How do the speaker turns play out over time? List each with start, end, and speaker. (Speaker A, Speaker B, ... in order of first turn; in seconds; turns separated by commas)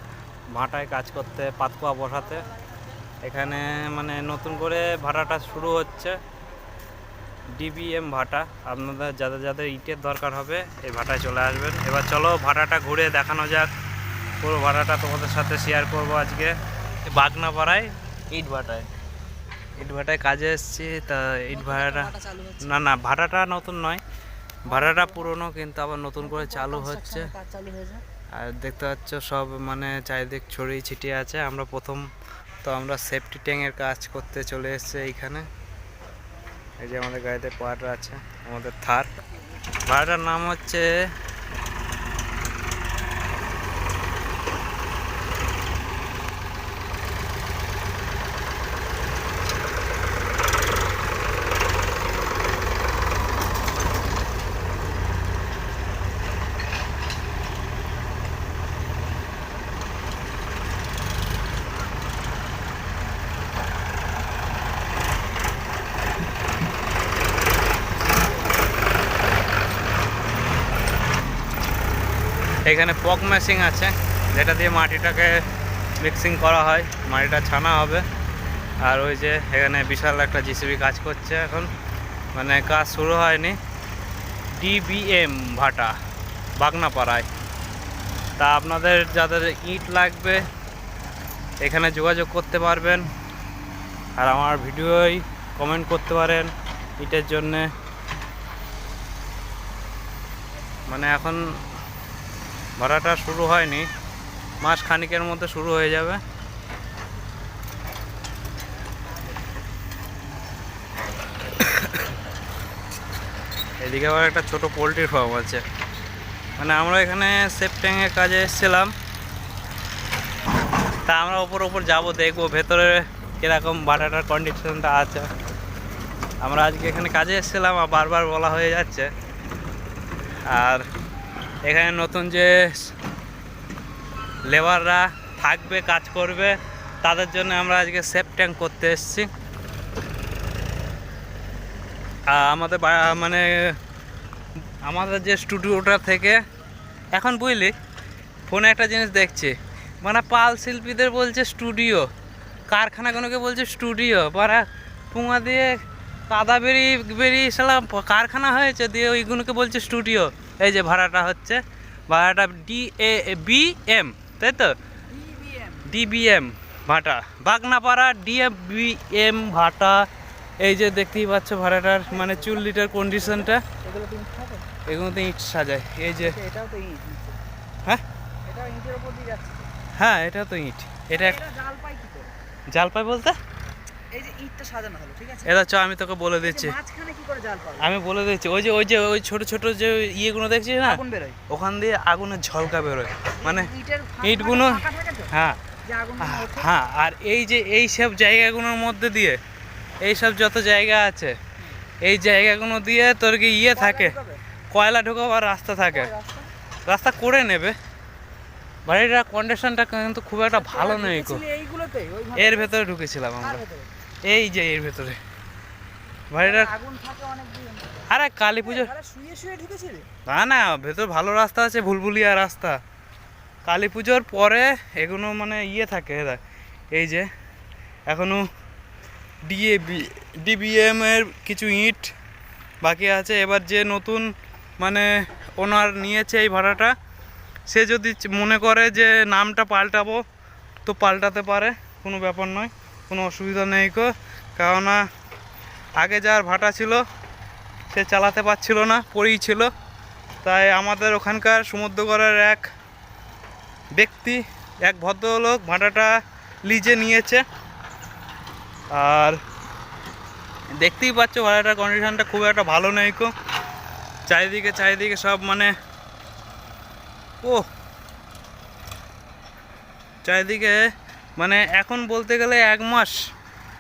Speaker A: 0.5-2.4, Speaker A: 3.2-6.2, Speaker A: 7.5-13.7, Speaker A: 14.4-18.9, Speaker A: 19.8-24.0, Speaker B: 21.5-22.7, Speaker A: 24.6-27.3, Speaker B: 24.7-25.3, Speaker B: 26.2-28.0, Speaker A: 28.3-32.1, Speaker A: 32.6-35.5, Speaker A: 36.8-39.1, Speaker A: 39.8-40.9, Speaker A: 72.7-75.4, Speaker A: 76.0-78.0, Speaker A: 78.8-81.7, Speaker A: 82.3-83.6, Speaker A: 84.6-86.0, Speaker A: 86.6-87.3, Speaker A: 88.4-90.5, Speaker A: 91.6-93.1, Speaker A: 94.2-97.7, Speaker A: 100.9-101.4, Speaker A: 102.8-103.9, Speaker A: 104.6-106.2, Speaker A: 111.6-112.0, Speaker A: 113.8-115.6, Speaker A: 116.6-118.9, Speaker A: 121.1-125.3, Speaker A: 126.4-129.1, Speaker A: 130.5-130.9, Speaker A: 131.7-132.9, Speaker A: 134.5-139.3, Speaker A: 142.3-143.8, Speaker A: 144.8-146.4, Speaker A: 147.1-147.8, Speaker A: 148.5-152.1, Speaker A: 152.7-164.8, Speaker B: 165.1-165.9, Speaker A: 165.8-170.1, Speaker A: 170.6-173.6, Speaker B: 172.1-172.6, Speaker B: 173.8-174.7, Speaker A: 174.8-176.3, Speaker B: 176.2-177.4, Speaker B: 178.4-179.7, Speaker A: 180.0-181.4, Speaker B: 181.1-182.3, Speaker A: 182.7-183.4, Speaker B: 184.1-185.6, Speaker A: 185.4-186.8, Speaker B: 186.4-188.0, Speaker A: 187.8-193.7, Speaker B: 190.8-191.4, Speaker B: 193.4-195.3, Speaker A: 194.2-195.6, Speaker B: 195.8-196.7, Speaker A: 196.2-199.4, Speaker A: 200.0-201.4, Speaker A: 202.0-204.2, Speaker B: 203.8-204.4, Speaker A: 204.7-206.1, Speaker B: 205.9-206.5, Speaker A: 206.9-207.8, Speaker A: 208.9-211.4, Speaker B: 210.5-212.7, Speaker A: 212.4-213.6, Speaker B: 213.4-213.9, Speaker A: 214.2-215.2, Speaker A: 216.3-216.7, Speaker B: 216.4-218.1, Speaker A: 218.1-218.9, Speaker B: 218.6-220.1, Speaker A: 220.3-222.8, Speaker A: 223.7-226.4, Speaker A: 226.9-227.3, Speaker A: 228.1-228.5, Speaker A: 229.5-232.1, Speaker A: 232.8-236.9, Speaker A: 237.7-240.2, Speaker A: 240.8-245.1, Speaker A: 246.0-247.1, Speaker A: 247.9-249.7, Speaker A: 250.4-252.7, Speaker A: 253.9-257.4, Speaker A: 258.9-259.4, Speaker A: 260.8-263.3, Speaker A: 264.3-265.7, Speaker A: 267.4-267.7, Speaker A: 270.2-270.8, Speaker A: 271.4-273.2